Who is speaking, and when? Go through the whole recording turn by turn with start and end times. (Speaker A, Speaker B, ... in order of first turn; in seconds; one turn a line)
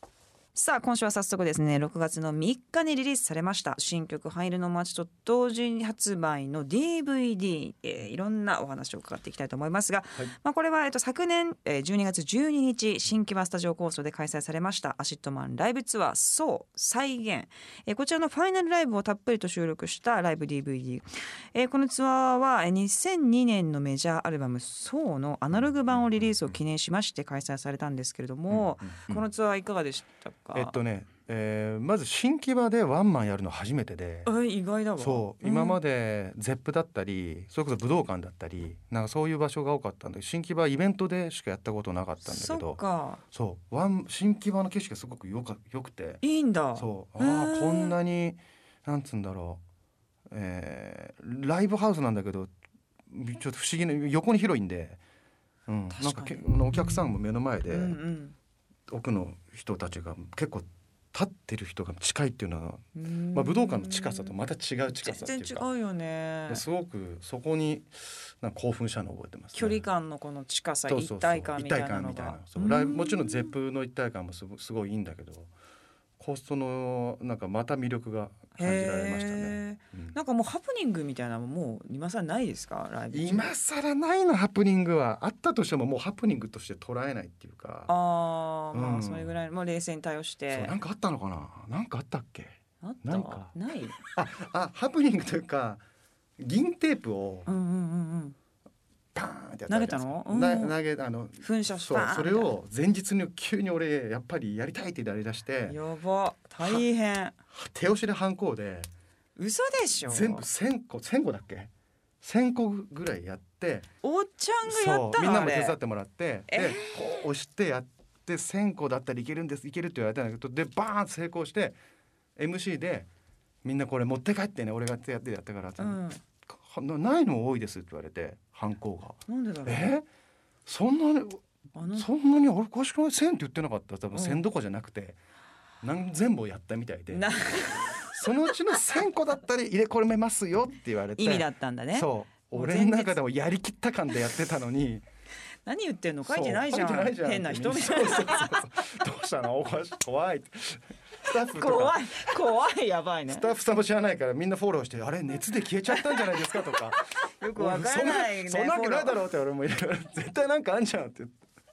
Speaker A: 0.6-30.8
Speaker B: 25.5-26.6
Speaker B: 28.5-29.3
Speaker B: 30.5-34.3
Speaker A: 34.3-35.8
Speaker B: 35.0-42.8
Speaker A: 42.2-43.2
Speaker B: 43.3-46.2
Speaker A: 46.2-48.0
Speaker B: 46.8-49.6
Speaker B: 50.3-52.5
Speaker B: 53.1-55.0
Speaker B: 55.7-58.0
Speaker A: 55.9-57.1
Speaker A: 57.7-58.4
Speaker B: 58.9-65.7
Speaker A: 63.0-64.3
Speaker A: 64.9-66.6
Speaker B: 66.5-69.8
Speaker A: 69.5-73.5
Speaker B: 70.9-75.5
Speaker B: 76.2-80.2
Speaker A: 78.6-83.5
Speaker B: 83.1-87.9
Speaker A: 87.9-90.8
Speaker B: 88.7-89.3
Speaker B: 90.5-95.8
Speaker A: 92.8-94.0
Speaker B: 96.4-97.5
Speaker A: 97.5-98.4
Speaker B: 99.2-105.8
Speaker A: 99.7-100.8
Speaker A: 101.4-102.5
Speaker A: 105.7-107.4
Speaker B: 107.5-108.9
Speaker A: 109.4-110.5
Speaker B: 110.1-111.7
Speaker B: 112.2-113.9
Speaker A: 114.0-115.8
Speaker B: 114.7-121.8
Speaker A: 116.5-117.3
Speaker B: 122.4-123.1
Speaker B: 123.6-130.1
Speaker A: 125.8-126.2
Speaker A: 129.3-129.9
Speaker B: 130.7-131.4
Speaker A: 131.8-132.1
Speaker B: 131.9-135.2
Speaker A: 134.1-134.4
Speaker B: 135.8-137.3
Speaker A: 137.1-138.2
Speaker B: 137.9-145.0
Speaker A: 141.2-143.2
Speaker A: 145.7-148.6
Speaker B: 146.3-152.3
Speaker A: 151.3-153.5
Speaker B: 153.3-157.0
Speaker A: 155.9-159.2
Speaker B: 157.6-161.3